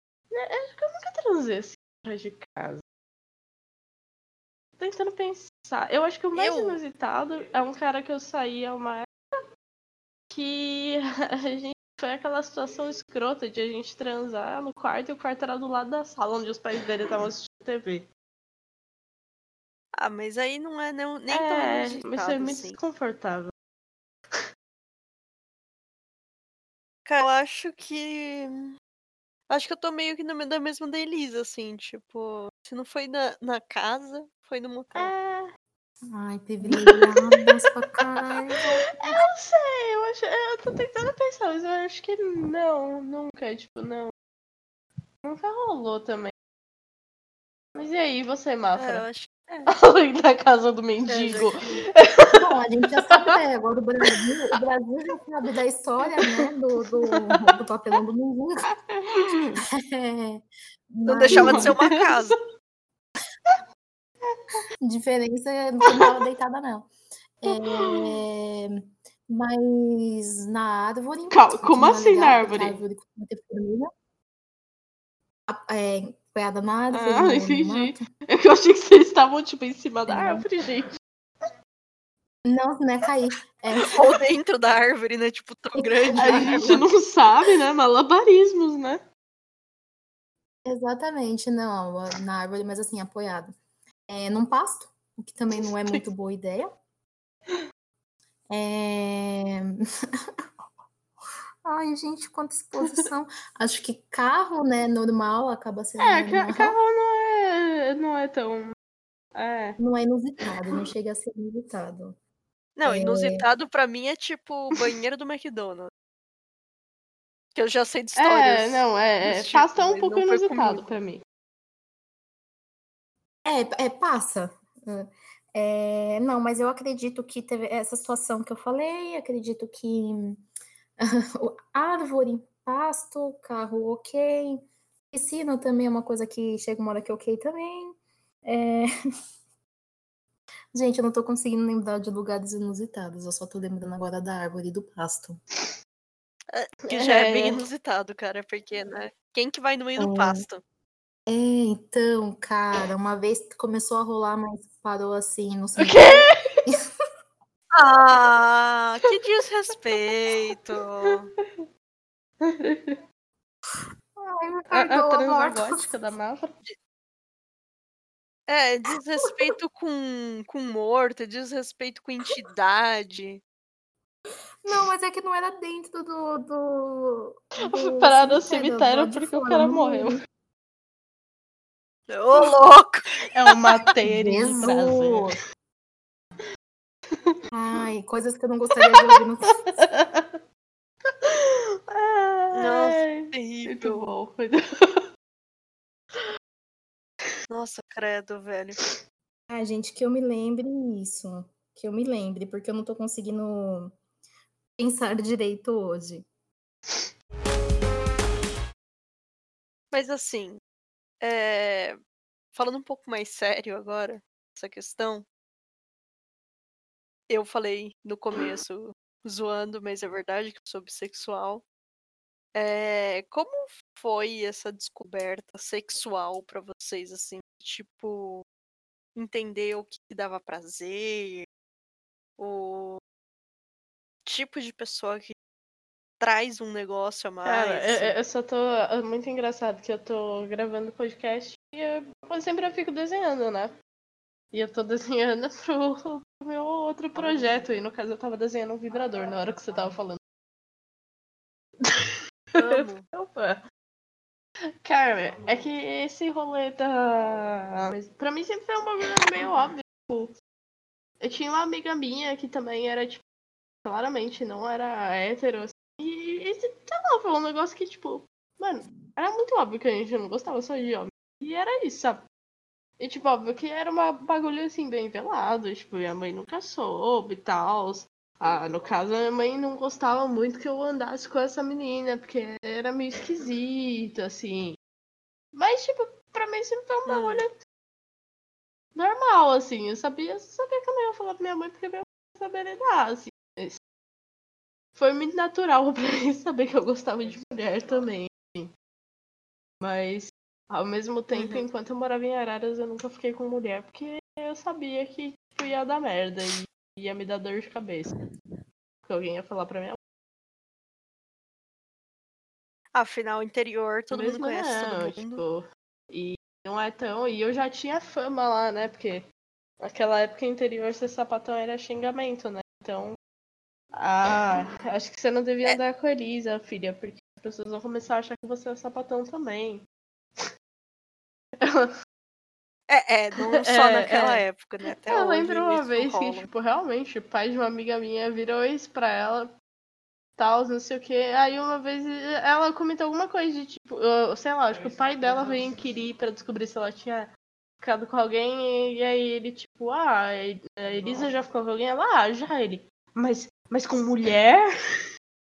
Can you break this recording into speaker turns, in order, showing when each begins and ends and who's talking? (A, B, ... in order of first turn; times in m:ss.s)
0:00.3-0:02.8 A
0:04.8-0:09.1 A
0:06.4-0:06.8 B
0:10.3-0:18.1 A
0:20.0-0:22.8 B
0:21.3-0:23.5 A
0:27.1-0:28.7 B
0:29.5-0:35.1 B
0:35.0-0:35.5 A
0:36.1-0:39.2 C
0:36.6-0:37.5 A
0:39.0-0:44.1 A
0:45.2-0:46.3 A
0:47.8-0:49.0 A
0:48.8-0:49.7 B
0:49.7-0:52.5 A
0:51.1-0:51.5 B
0:52.3-0:58.6 C
0:56.1-0:57.6 A
0:58.9-0:59.6 A
0:59.6-1:01.7 C
1:01.1-1:02.4 B
1:01.3-1:02.4 A
1:04.3-1:04.6 A
1:04.8-1:06.9 C
1:05.9-1:06.2 A
1:07.4-1:13.9 C
1:07.4-1:08.2 A
1:11.3-1:12.8 A
1:15.5-1:18.0 C
1:16.9-1:20.9 A
1:20.1-1:20.4 C
1:22.4-1:24.0 C
1:23.8-1:26.8 B
1:25.7-1:26.8 C
1:26.2-1:29.0 A
1:30.7-1:33.5 C
1:34.1-1:36.7 C
1:35.6-1:36.0 A
1:38.5-1:39.8 C
1:41.6-1:46.8 C
1:42.8-1:43.1 A
1:46.0-1:48.7 A
1:49.4-1:49.8 A
1:49.8-1:52.2 C
1:52.8-1:55.9 B
1:52.9-1:53.4 C
1:57.6-2:00.8 B
1:58.2-2:01.2 A
2:03.4-2:10.4 C
2:11.0-2:18.9 C
2:20.7-2:25.4 C
2:26.5-2:30.6 B
2:26.9-2:27.6 A
2:30.0-2:30.4 C
2:31.3-2:36.8 C
2:35.8-2:36.6 A
2:37.8-2:41.3 B
2:41.4-2:41.6 A
2:42.4-2:43.0 A
2:44.2-2:45.9 C
2:44.7-2:46.5 A
2:48.5-2:53.4 B
2:54.6-3:00.2 C
2:57.6-3:00.2 A
3:02.1-3:03.2 B
3:03.3-3:05.4 A
3:04.0-3:05.4 C
3:07.5-3:09.6 C
3:08.8-3:10.4 A
3:11.1-3:15.0 A
3:12.5-3:14.1 B
3:17.5-3:18.8 B
3:19.5-3:24.0 C
3:24.8-3:26.3 C
3:29.9-3:30.6 B
3:31.2-3:32.0 B
3:32.5-3:35.3 B
3:37.3-3:41.6 B
3:42.6-3:48.4 B
3:49.2-3:51.5 B
3:52.4-3:53.0 B
3:54.3-3:55.3 B
3:56.2-3:58.2 B
3:57.4-4:03.8 A
4:04.5-4:10.2 A
4:11.8-4:13.6 A
4:12.6-4:13.0 B
4:14.8-4:20.3 A
4:21.2-4:23.2 A
4:23.8-4:32.2 A
4:33.0-4:44.8 A
4:45.6-4:47.5 A
4:47.1-4:47.4 B
4:49.0-4:53.8 A
4:55.0-4:58.7 A
4:59.8-5:08.1 A
5:01.3-5:01.6 B
5:09.1-5:10.0 A
5:12.9-5:15.4 B
5:14.1-5:19.2 A
5:19.8-5:23.2 A
5:24.0-5:29.8 A
5:31.6-5:31.9 A
5:32.9-5:36.5 B
5:33.4-5:34.4 A
5:34.9-5:39.5 A
5:40.4-5:47.3 A
5:47.8-5:54.7 A